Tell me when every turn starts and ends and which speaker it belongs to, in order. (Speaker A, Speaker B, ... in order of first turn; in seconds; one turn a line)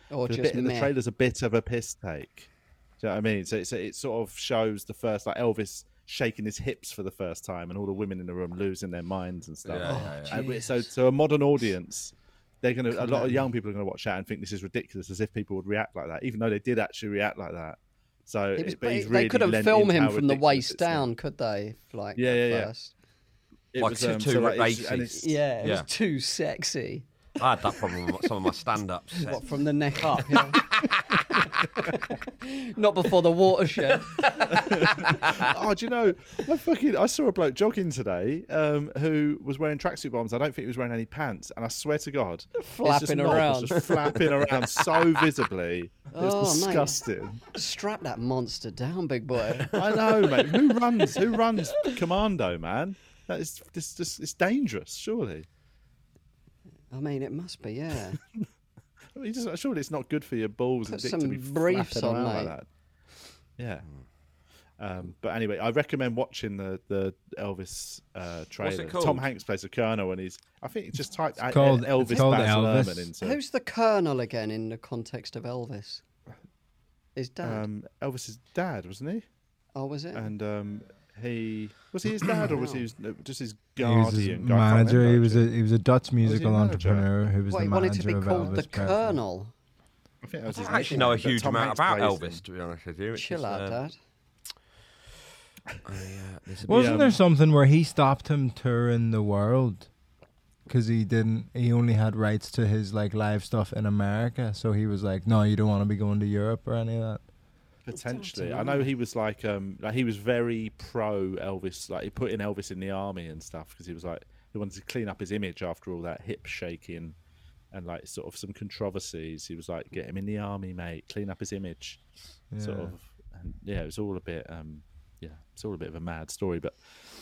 Speaker A: 0.1-0.9
Speaker B: 0.3-21.1
Speaker C: 9.6-10.4
Speaker A: 9.8-10.7
Speaker A: 12.9-13.4
Speaker A: 18.6-22.9
Speaker B: 22.2-22.7
Speaker B: 23.7-25.3
Speaker C: 23.8-25.9
Speaker A: 25.1-27.1
Speaker C: 27.4-29.4
Speaker A: 29.2-30.6
Speaker C: 30.5-31.4
Speaker A: 31.7-35.1
Speaker C: 34.0-35.5
Speaker B: 34.5-47.5
Speaker A: 42.6-44.2
Speaker A: 46.1-47.0
Speaker A: 47.5-49.8
Speaker B: 49.7-55.5
Speaker A: 56.9-58.2
Speaker B: 59.1-62.6
Speaker A: 60.9-62.5
Speaker B: 63.6-63.8
Speaker B: 64.8-73.4
Speaker C: 68.6-69.3
Speaker D: 71.5-73.1
Speaker A: 73.2-76.0
Speaker A: 77.2-77.6
Speaker B: 77.4-79.2
Speaker A: 79.7-80.3
Speaker B: 80.1-85.4
Speaker A: 82.4-82.8
Speaker D: 83.8-89.2
Speaker B: 86.2-87.1
Speaker A: 87.5-89.5
Speaker B: 90.2-92.4
Speaker C: 90.5-93.8
Speaker A: 90.5-91.1
Speaker A: 93.2-94.0
Speaker C: 95.8-97.1
Speaker D: 96.7-99.9
Speaker B: 96.7-97.2
Speaker D: 100.7-107.2
Speaker B: 107.9-117.2
Speaker A: 107.9-108.9
Speaker B: 117.7-122.0
Speaker D: 122.5-122.9
Speaker B: 122.6-126.8